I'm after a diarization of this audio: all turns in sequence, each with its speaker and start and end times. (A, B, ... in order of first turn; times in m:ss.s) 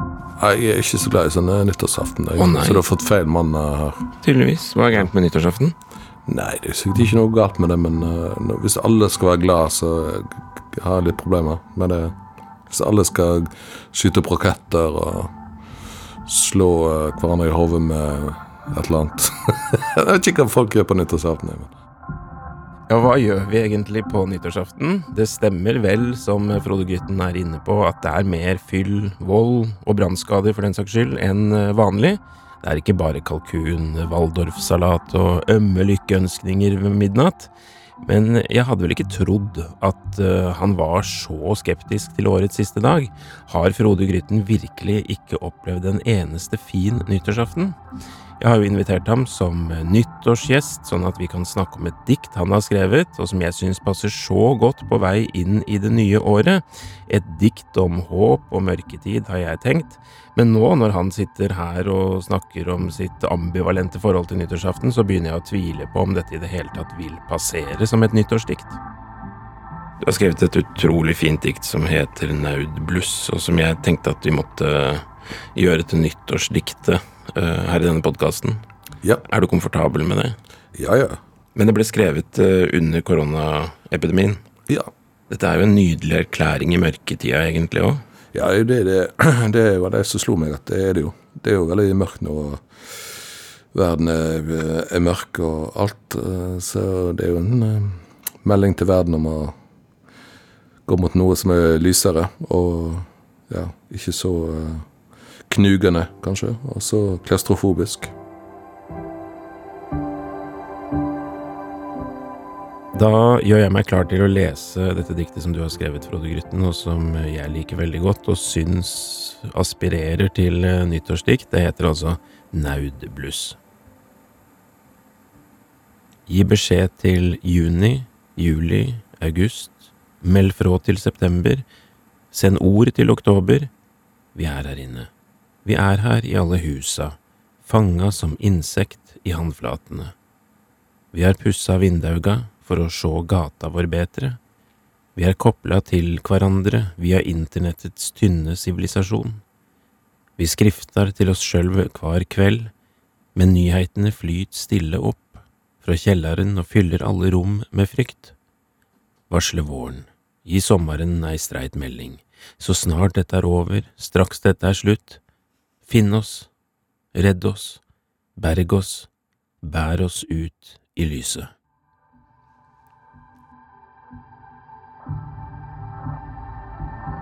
0:00.4-0:04.0 A
0:02.4-0:02.8 B
0:04.2-0:05.7 B
0:06.2-0:12.1 A
0:12.7-0:15.3 A
0:16.2-0:21.7 A
0:22.9-0:47.8 B
0:48.4-1:08.8 B
1:10.0-1:18.6 B
1:19.2-1:20.4 B
1:20.7-1:21.2 A
1:21.5-1:24.4 B
1:25.3-1:28.0 B
1:28.3-1:33.2 A
1:33.7-1:39.5 A
1:40.9-1:44.8 A
1:45.5-1:48.1 A
1:52.9-2:03.6 B
2:06.3-2:11.6 B
2:12.3-2:13.7 B
2:14.3-2:15.1 B
2:15.6-2:20.1 B
2:21.1-2:24.4 B
2:25.2-2:29.4 B
2:30.4-2:32.7 B
2:33.3-2:38.3 B
2:39.3-2:45.2 B
2:45.8-2:46.5 B
2:47.1-2:47.8 B
2:48.4-2:49.1 B
2:49.6-2:51.5 B